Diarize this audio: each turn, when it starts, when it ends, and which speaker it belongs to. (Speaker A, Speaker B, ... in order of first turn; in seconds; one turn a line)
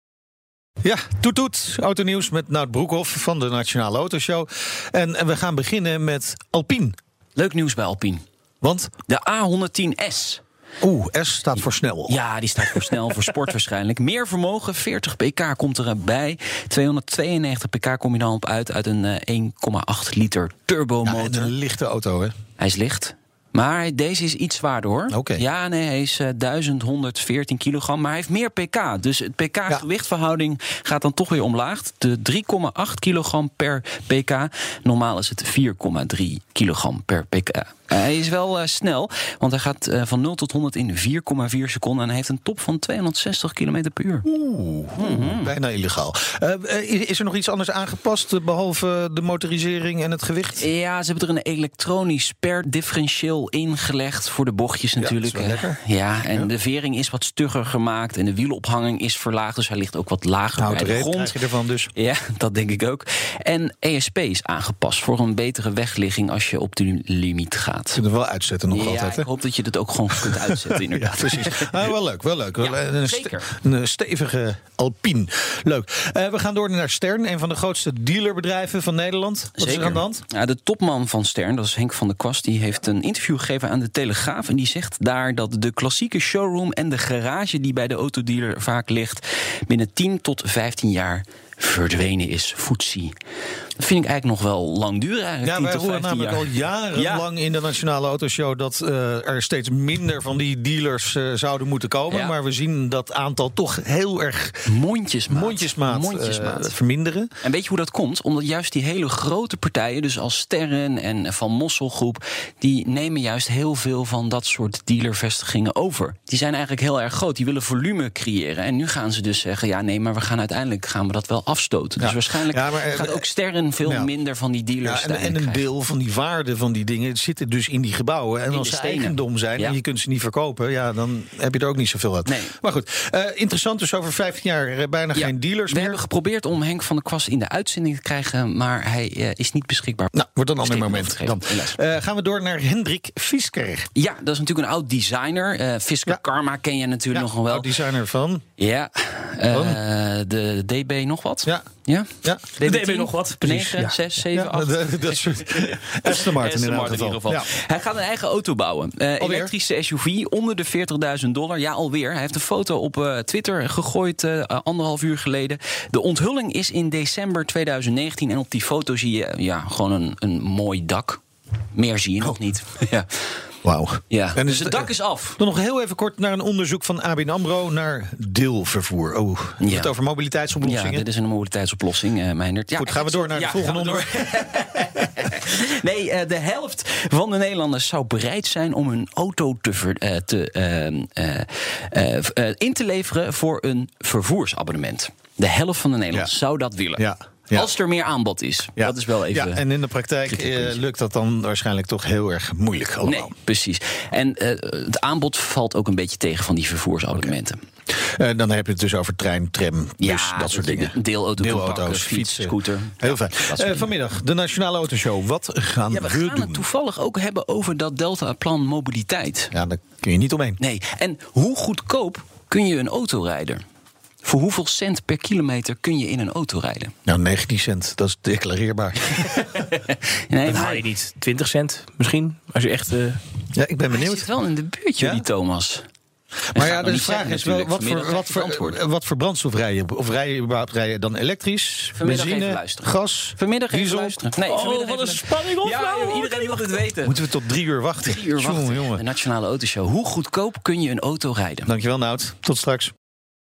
Speaker A: 0.8-6.9
Speaker B: 7.3-8.2
Speaker A: 8.6-8.9
Speaker B: 9.1-10.4
Speaker A: 10.8-12.2
Speaker B: 12.1-21.5
Speaker A: 21.0-22.3
Speaker B: 22.6-44.2
Speaker A: 25.1-25.4
Speaker A: 44.2-50.6
Speaker B: 45.0-45.5
Speaker B: 50.6-61.4
Speaker A: 55.0-55.8
Speaker A: 60.6-61.9
Speaker B: 61.9-68.0
Speaker A: 67.9-69.3
Speaker B: 68.7-71.7
Speaker A: 70.3-80.2
Speaker B: 72.6-73.5
Speaker B: 79.6-93.1
Speaker B: 93.8-97.2
Speaker A: 95.4-104.6
Speaker B: 102.1-102.3
Speaker B: 104.7-106.7
Speaker A: 105.3-107.3
Speaker B: 107.4-125.6
Speaker A: 122.0-123.2
Speaker A: 123.8-124.1
Speaker A: 124.8-136.0
Speaker B: 128.5-129.8
Speaker B: 132.2-132.6
Speaker B: 135.1-140.1
Speaker A: 140.1-143.9
Speaker B: 140.6-141.8
Speaker B: 143.9-147.7
Speaker A: 147.1-148.4
Speaker B: 148.6-171.2
Speaker A: 149.5-149.8
Speaker A: 152.2-152.5
Speaker C: 152.6-154.0
Speaker A: 154.3-157.5
Speaker A: 159.2-159.5
Speaker B: 171.7-173.1
Speaker A: 173.6-181.0
Speaker B: 174.1-175.4
Speaker B: 179.6-179.9
Speaker B: 180.6-199.6
Speaker A: 182.7-184.1
Speaker A: 196.9-197.7
Speaker A: 198.8-203.3
Speaker B: 200.3-200.7
Speaker B: 203.0-207.6
Speaker A: 208.0-216.7
Speaker B: 210.0-213.9
Speaker B: 215.9-219.5
Speaker A: 219.5-220.6
Speaker B: 220.6-223.6
Speaker B: 224.2-226.9
Speaker A: 227.1-229.5
Speaker B: 229.3-231.0
Speaker C: 230.5-233.2
Speaker A: 233.5-234.3
Speaker B: 233.9-235.8
Speaker A: 235.0-235.2
Speaker A: 236.5-244.2
Speaker B: 236.5-238.8
Speaker B: 241.9-247.1
Speaker C: 244.4-246.6
Speaker A: 247.0-249.0
Speaker B: 248.0-251.7
Speaker A: 251.7-252.9